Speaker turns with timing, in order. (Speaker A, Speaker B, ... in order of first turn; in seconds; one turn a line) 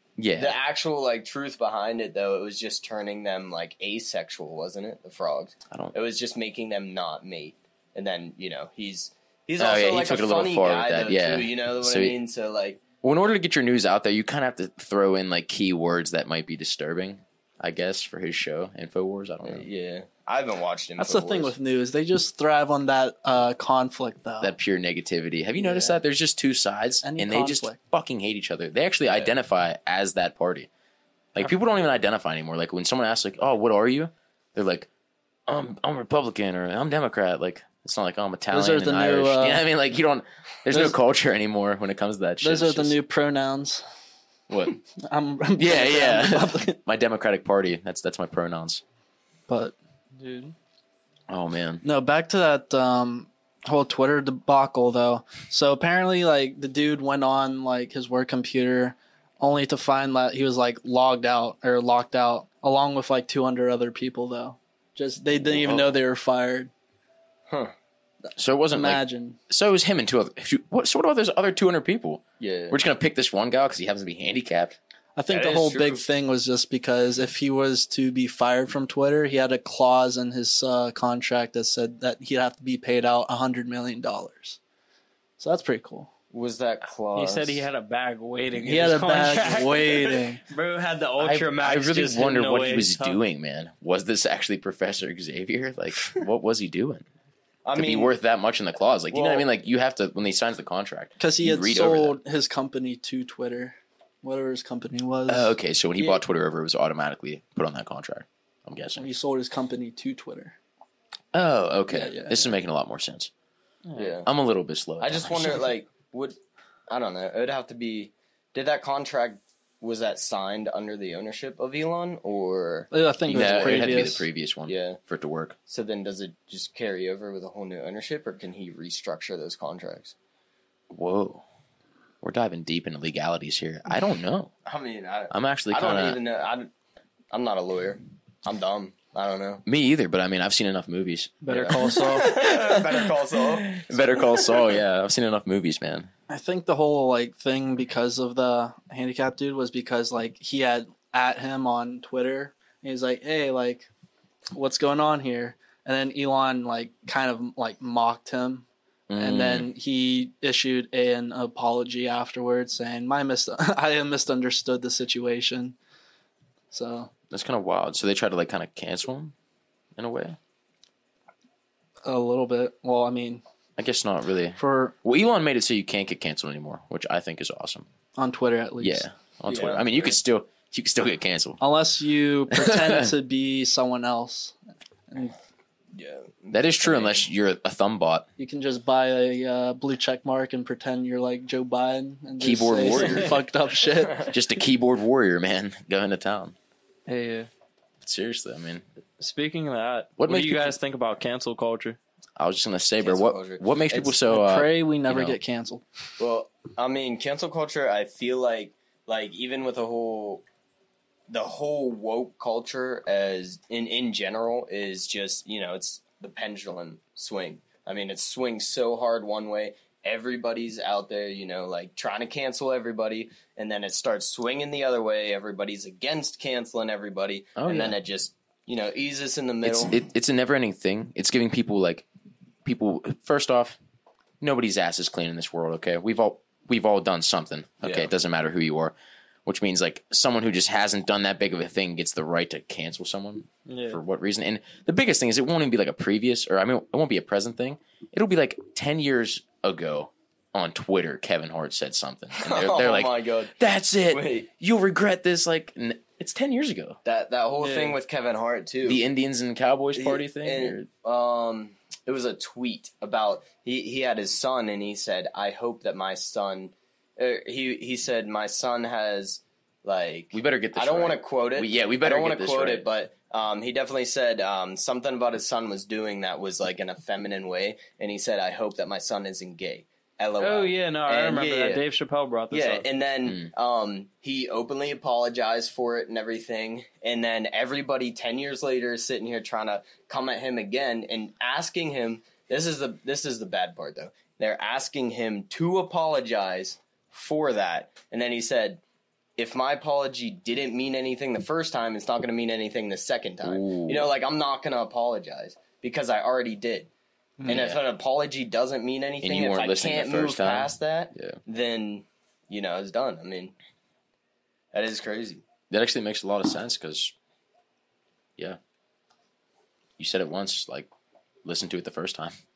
Speaker A: 0.2-0.6
Speaker B: 0.3-12.8
Speaker A: 9.6-12.1
Speaker A: 13.0-19.7
Speaker B: 19.4-21.5
Speaker C: 21.0-24.5
Speaker A: 24.4-30.7
Speaker C: 25.6-26.0
Speaker C: 27.0-27.8
Speaker A: 31.3-34.9
Speaker A: 35.5-43.0
Speaker C: 38.5-39.6
Speaker C: 42.4-43.9
Speaker A: 44.5-44.8
Speaker C: 45.0-46.8
Speaker A: 45.6-48.8
Speaker C: 49.5-49.7
Speaker D: 50.2-50.5
Speaker A: 51.3-51.8
Speaker C: 51.8-66.7
Speaker B: 67.5-67.7
Speaker A: 68.3-74.8
Speaker C: 68.7-69.4
Speaker B: 72.4-72.8
Speaker C: 75.2-84.6
Speaker B: 75.3-76.0
Speaker C: 85.4-86.1
Speaker B: 86.3-87.6
Speaker D: 87.1-93.2
Speaker C: 88.6-90.4
Speaker B: 89.4-90.0
Speaker A: 91.2-97.0
Speaker B: 97.6-98.1
Speaker A: 97.7-102.2
Speaker B: 99.1-99.5
Speaker C: 101.2-105.5
Speaker A: 105.3-109.0
Speaker C: 109.0-110.5
Speaker A: 111.3-113.3
Speaker C: 111.9-112.5
Speaker D: 113.8-114.1
Speaker B: 114.0-114.3
Speaker A: 114.2-115.7
Speaker B: 115.0-116.4
Speaker B: 116.9-123.9
Speaker C: 122.9-124.3
Speaker A: 123.3-125.5
Speaker B: 124.7-125.0
Speaker B: 125.7-130.1
Speaker A: 130.9-131.4
Speaker A: 132.2-134.5
Speaker B: 134.6-136.7
Speaker A: 135.3-136.2
Speaker B: 137.3-139.6
Speaker A: 139.7-141.9
Speaker D: 141.4-142.4
Speaker B: 141.5-144.7
Speaker A: 142.5-146.1
Speaker C: 146.3-153.9
Speaker C: 154.5-165.8
Speaker A: 159.1-159.7
Speaker C: 166.7-167.1
Speaker A: 167.3-169.3
Speaker A: 169.9-170.4
Speaker C: 172.1-173.4
Speaker A: 173.8-177.8
Speaker C: 174.6-174.9
Speaker C: 178.2-179.0
Speaker A: 178.8-181.6
Speaker B: 179.4-180.2
Speaker C: 181.6-184.6
Speaker A: 182.5-183.1
Speaker C: 185.1-185.3
Speaker B: 185.9-187.3
Speaker A: 186.5-188.3
Speaker C: 188.4-194.1
Speaker A: 192.4-193.4
Speaker B: 193.9-194.3
Speaker A: 194.3-196.5
Speaker D: 197.1-197.5
Speaker A: 198.0-198.8
Speaker D: 199.2-202.0
Speaker A: 200.2-200.8
Speaker A: 202.4-205.4
Speaker B: 203.0-204.2
Speaker C: 204.3-205.8
Speaker B: 206.2-210.4
Speaker B: 211.3-230.0
Speaker A: 227.6-227.9
Speaker A: 229.6-232.0
Speaker A: 232.6-233.8
Speaker A: 234.4-238.9
Speaker B: 237.8-238.1
Speaker A: 239.4-257.0
Speaker D: 243.7-244.0
Speaker B: 252.4-253.5
Speaker B: 254.1-254.5
Speaker B: 257.0-259.0
Speaker D: 257.6-258.0
Speaker A: 258.8-260.9
Speaker B: 259.9-281.8
Speaker A: 270.3-272.9
Speaker D: 280.4-282.8
Speaker B: 282.5-298.8
Speaker A: 283.2-283.5
Speaker B: 299.4-306.9
Speaker A: 303.4-304.1
Speaker A: 307.4-307.8
Speaker B: 307.4-313.5
Speaker A: 309.2-311.4
Speaker B: 314.7-315.4
Speaker A: 315.7-317.1
Speaker A: 320.0-320.9
Speaker A: 321.4-322.4